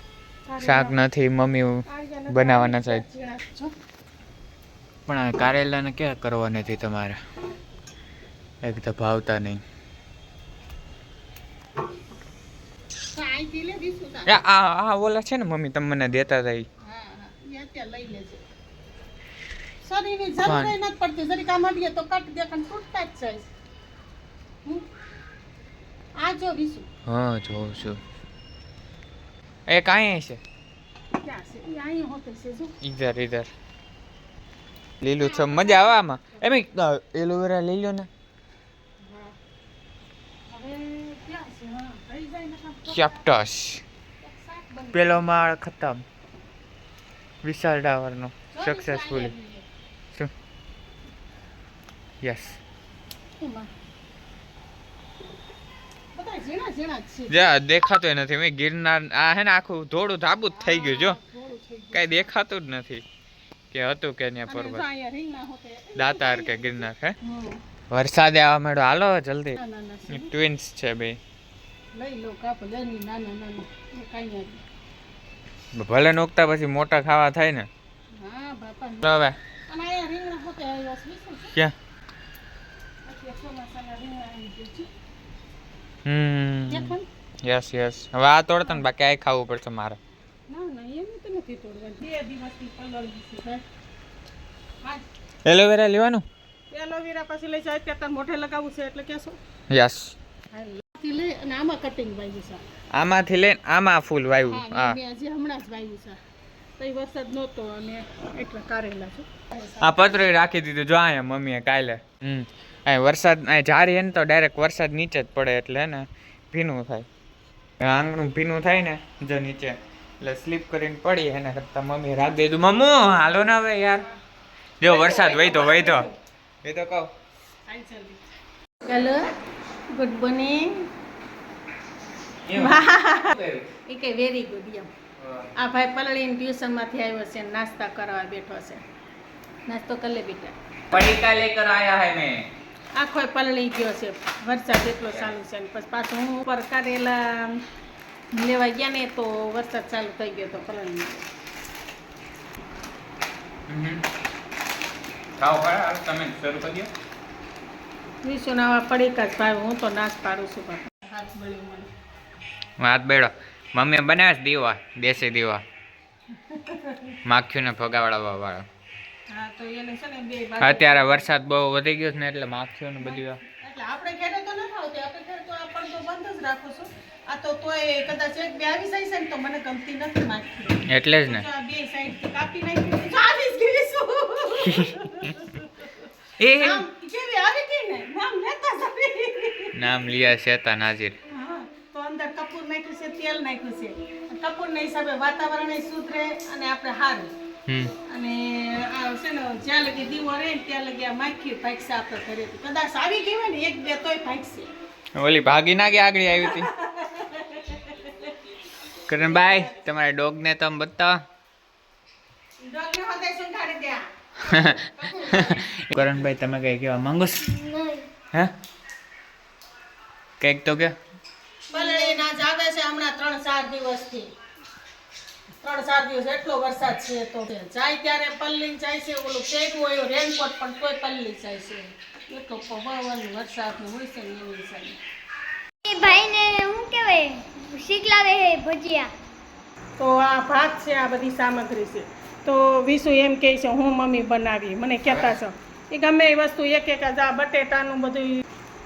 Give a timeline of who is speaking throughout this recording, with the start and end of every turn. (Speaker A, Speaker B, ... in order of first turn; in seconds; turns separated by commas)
Speaker A: 0.5-1.0, Speaker B: 0.6-3.0, Speaker A: 1.9-3.7, Speaker B: 5.1-7.2, Speaker B: 8.6-9.6, Speaker A: 13.1-14.3, Speaker B: 14.2-16.6, Speaker A: 16.9-18.4, Speaker A: 19.8-23.5, Speaker B: 20.4-20.7, Speaker A: 26.2-26.9, Speaker B: 27.1-28.0, Speaker B: 29.7-30.4, Speaker A: 31.2-32.7, Speaker B: 32.8-33.5, Speaker B: 35.0-38.1, Speaker A: 35.2-35.9, Speaker A: 39.0-39.3, Speaker A: 40.5-43.2, Speaker B: 42.9-43.8, Speaker A: 44.2-45.4, Speaker B: 44.9-46.0, Speaker B: 47.4-49.3, Speaker A: 48.5-49.6, Speaker B: 52.2-52.6, Speaker A: 53.4-53.7, Speaker A: 56.1-57.4, Speaker B: 57.3-61.2, Speaker A: 60.5-62.3, Speaker B: 61.9-63.0, Speaker B: 63.7-64.8, Speaker A: 64.5-67.6, Speaker B: 66.0-67.1, Speaker B: 67.9-71.2, Speaker A: 69.6-70.3, Speaker A: 71.9-74.6, Speaker B: 75.7-77.7, Speaker A: 78.2-79.1, Speaker B: 79.0-79.3, Speaker A: 79.7-81.5, Speaker A: 83.0-84.9, Speaker B: 86.0-90.0, Speaker A: 86.7-87.0, Speaker A: 90.5-93.6, Speaker B: 95.5-96.2, Speaker A: 96.7-99.4, Speaker B: 99.7-100.2, Speaker A: 100.5-102.6, Speaker B: 102.9-105.0, Speaker A: 104.5-106.2, Speaker A: 106.8-110.2, Speaker B: 109.8-117.1, Speaker B: 117.8-124.0, Speaker B: 124.8-126.1, Speaker A: 124.9-126.1, Speaker B: 126.6-127.1, Speaker A: 127.7-128.2, Speaker A: 128.8-129.3, Speaker A: 129.9-130.9, Speaker B: 132.4-133.7, Speaker A: 132.5-133.3, Speaker A: 133.9-134.9, Speaker B: 135.2-135.5, Speaker A: 135.6-138.8, Speaker A: 139.7-140.5, Speaker B: 140.9-142.5, Speaker A: 142.9-147.6, Speaker A: 148.3-151.2, Speaker B: 153.7-154.0, Speaker B: 155.4-156.9, Speaker A: 158.2-161.9, Speaker B: 162.8-165.6, Speaker A: 166.5-167.1, Speaker B: 167.2-168.7, Speaker A: 169.3-171.2, Speaker B: 170.6-173.4, Speaker A: 173.0-186.1, Speaker B: 180.9-181.4, Speaker B: 186.4-186.8, Speaker A: 186.6-189.7, Speaker B: 189.7-191.2, Speaker A: 191.3-197.3, Speaker B: 197.7-197.9, Speaker A: 198.1-204.7, Speaker B: 205.2-206.7, Speaker A: 206.4-208.3, Speaker B: 209.1-211.2, Speaker A: 209.1-209.8, Speaker A: 212.7-215.6, Speaker B: 214.4-217.4, Speaker C: 217.4-218.1, Speaker B: 220.4-221.0, Speaker C: 221.7-222.3, Speaker A: 221.7-224.3, Speaker A: 225.6-235.0, Speaker C: 235.8-239.1, Speaker A: 240.0-248.4, Speaker B: 245.1-245.3